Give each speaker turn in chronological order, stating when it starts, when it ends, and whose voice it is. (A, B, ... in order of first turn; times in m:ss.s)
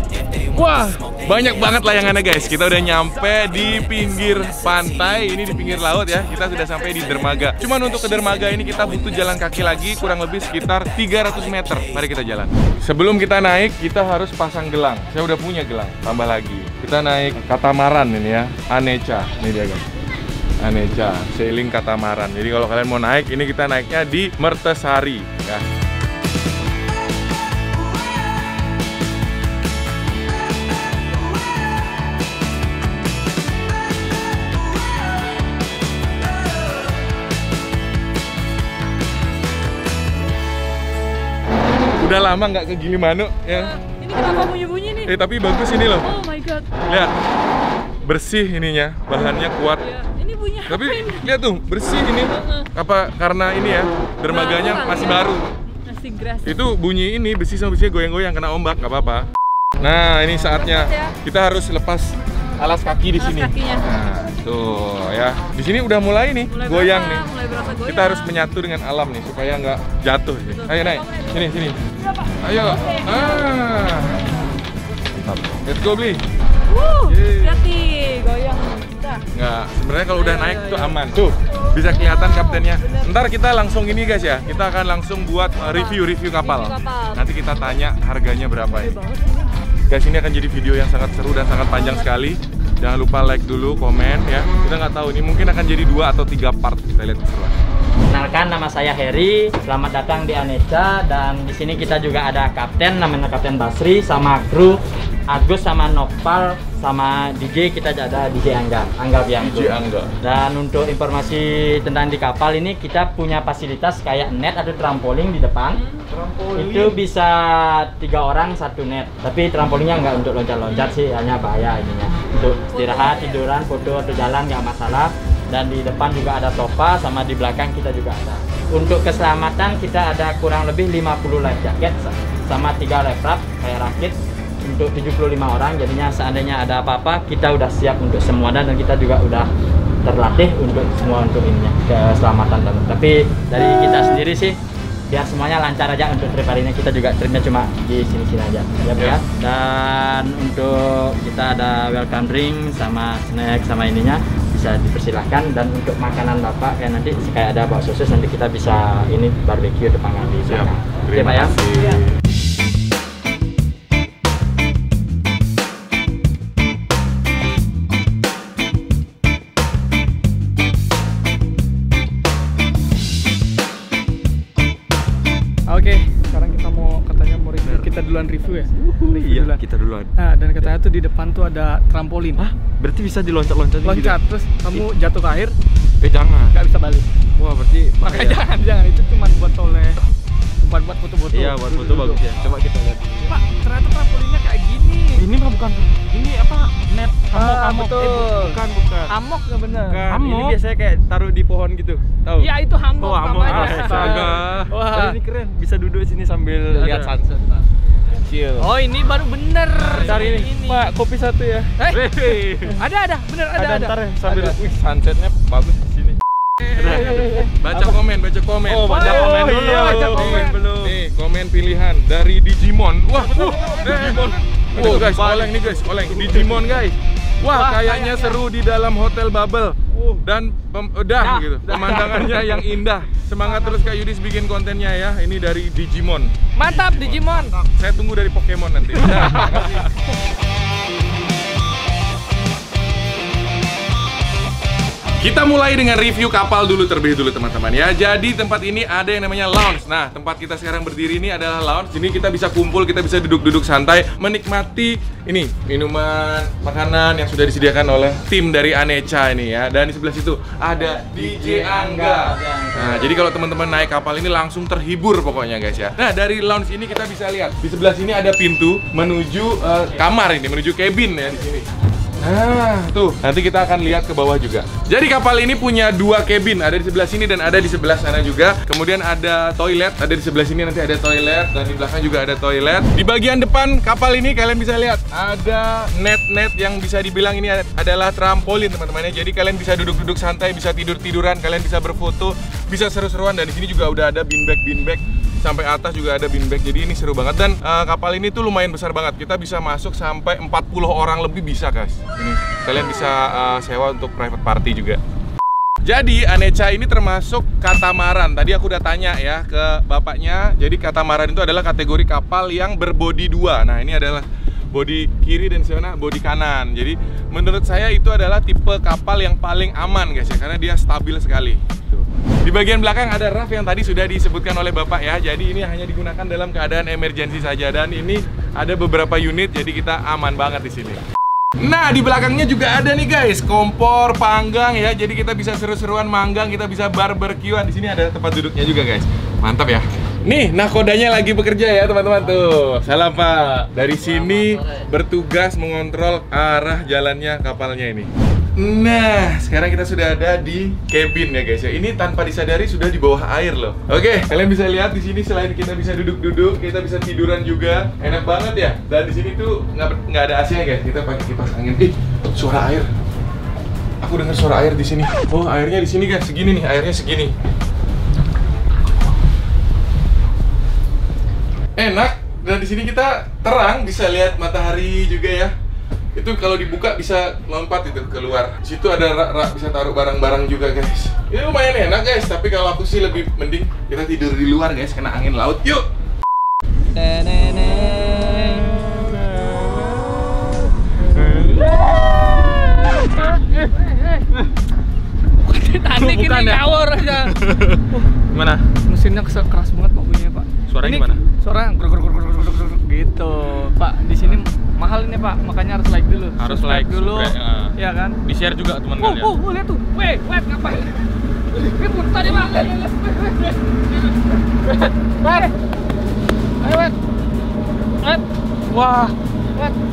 0:00.5-0:19.8 A
0:20.6-0:25.6 A
0:42.0-0:43.7 A
0:43.5-0:45.2 B
0:45.0-0:46.1 A
0:45.9-0:46.7 B
0:46.8-0:47.1 A
0:48.0-0:49.8 A
0:49.8-0:51.3 B
0:50.7-0:55.4 A
0:52.2-0:52.7 B
0:54.3-0:56.6 B
0:56.4-0:59.3 A
0:59.8-1:07.3 A
1:00.5-1:01.2 B
1:03.1-1:03.9 B
1:06.5-1:08.3 B
1:07.8-1:11.8 A
1:10.5-1:11.5 B
1:12.4-1:14.2 A
1:12.7-1:13.1 B
1:15.2-1:16.2 A
1:16.7-1:19.2 B
1:19.3-1:29.0 A
1:20.1-1:21.0 B
1:22.3-1:23.1 B
1:25.7-1:27.2 B
1:29.0-1:29.4 B
1:29.9-1:37.5 A
1:31.8-1:32.0 B
1:38.1-1:44.8 C
1:45.3-1:55.8 C
1:49.4-1:50.1 A
1:56.5-2:19.5 C
2:02.7-2:03.3 B
2:20.0-2:24.6 C
2:25.1-2:41.6 C
2:40.5-2:42.2 A
2:55.7-2:59.6 D
2:57.6-2:57.9 E
2:58.8-3:00.7 E
3:00.2-3:02.4 D
3:02.4-3:04.2 E
3:03.8-3:05.6 D
3:06.0-3:06.4 E
3:06.5-3:07.1 D
3:07.4-3:08.4 E
3:08.0-3:10.0 D
3:10.6-3:12.3 D
3:11.3-3:13.3 E
3:13.3-3:15.3 D
3:15.2-3:19.1 E
3:17.3-3:20.1 D
3:19.8-3:27.6 E
3:20.1-3:20.5 A
3:22.4-3:25.2 D
3:24.0-3:24.7 A
3:28.2-3:28.7 E
3:28.6-3:31.0 D
3:29.9-3:32.8 E
3:31.8-3:34.6 D
3:33.5-3:36.2 E
3:36.7-3:56.3 A
3:36.7-3:38.0 E
3:38.6-3:41.0 E
3:38.8-3:40.7 D
3:43.3-3:46.6 E
3:43.4-3:43.8 D
3:47.4-3:48.4 D
3:51.2-3:52.1 D
3:51.7-3:52.1 E
3:53.4-3:53.8 D
3:56.6-3:57.6 D
3:56.9-3:59.9 A
4:05.2-4:31.6 A
4:20.8-4:23.2 C
4:32.2-5:05.0 A
5:05.8-5:31.0 A
5:31.6-6:02.9 A
6:04.0-6:07.3 A
6:11.8-6:15.5 A
6:16.1-6:25.9 A
6:27.0-6:28.0 D
6:27.0-6:29.2 E
6:31.2-6:31.7 E
6:32.3-6:32.6 E
6:32.8-6:34.2 D
6:35.4-6:37.4 D
6:38.9-6:48.2 D
6:46.6-6:47.7 A
6:48.3-6:49.3 A
6:49.0-6:51.0 D
6:51.6-6:53.5 D
6:54.8-6:55.5 D
6:56.6-6:56.9 D
6:58.0-6:59.7 D